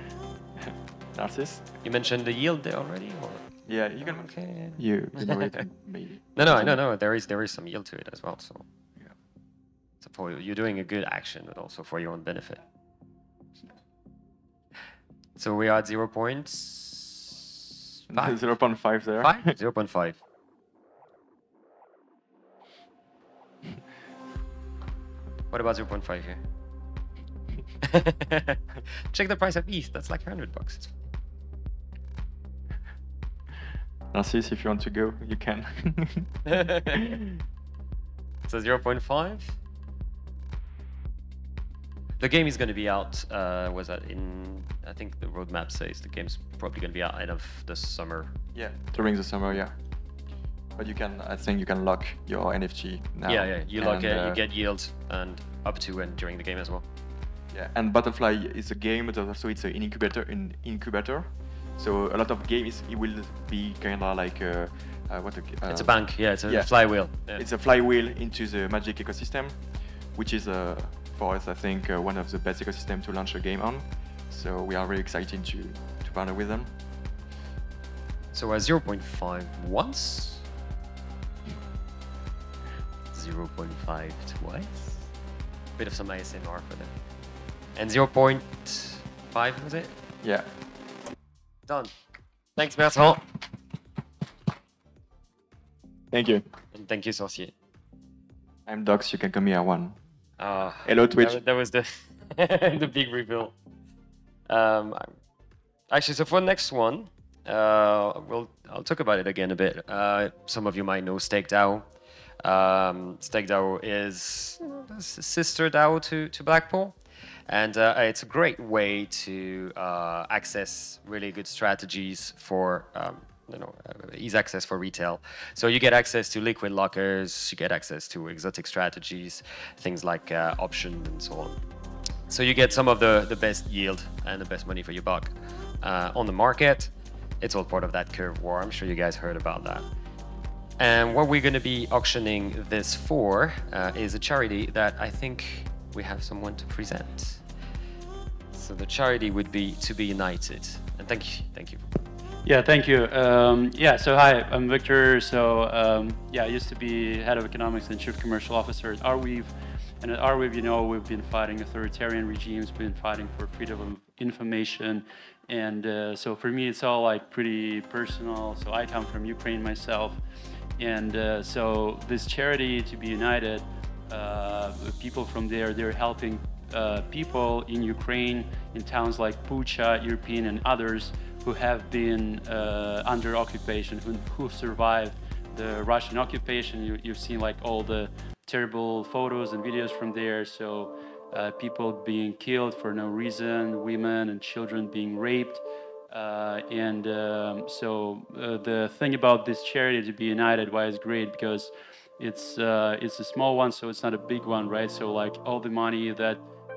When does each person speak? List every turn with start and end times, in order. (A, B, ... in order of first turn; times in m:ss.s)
0:00.6-0:01.7 A
0:01.8-0:03.4 B
0:03.7-0:06.8 A
0:04.0-0:05.6 B
0:06.4-0:08.6 B
0:10.0-0:12.6 B
0:15.4-0:17.4 B
0:18.1-0:19.6 A
0:19.2-0:20.2 B
0:25.5-0:26.4 B
0:27.8-0:28.6 B
0:29.1-0:30.9 B
0:34.1-0:36.6 A
0:36.5-0:37.0 B
0:38.5-0:39.6 B
0:42.2-0:48.3 B
0:48.6-0:49.7 A
0:50.8-0:54.4 A
0:53.3-0:56.8 B
0:57.5-1:09.6 A
1:05.7-1:07.5 B
1:10.1-1:16.7 A
1:18.3-1:20.4 B
1:23.1-1:25.1 B
1:25.8-1:26.9 B
1:27.8-1:29.9 B
1:31.7-1:31.9 B
1:32.6-1:33.2 B
1:36.1-1:36.4 A
1:36.7-1:37.5 B
1:38.7-1:40.0 A
1:40.4-1:43.6 B
1:40.8-1:41.4 A
1:44.5-1:45.1 B
1:45.9-1:51.9 B
1:52.4-1:57.0 B
1:57.5-2:11.6 B
2:12.3-2:19.9 B
2:20.8-2:27.4 B
2:28.5-2:31.8 B
2:32.4-2:50.2 C
2:50.8-3:26.4 C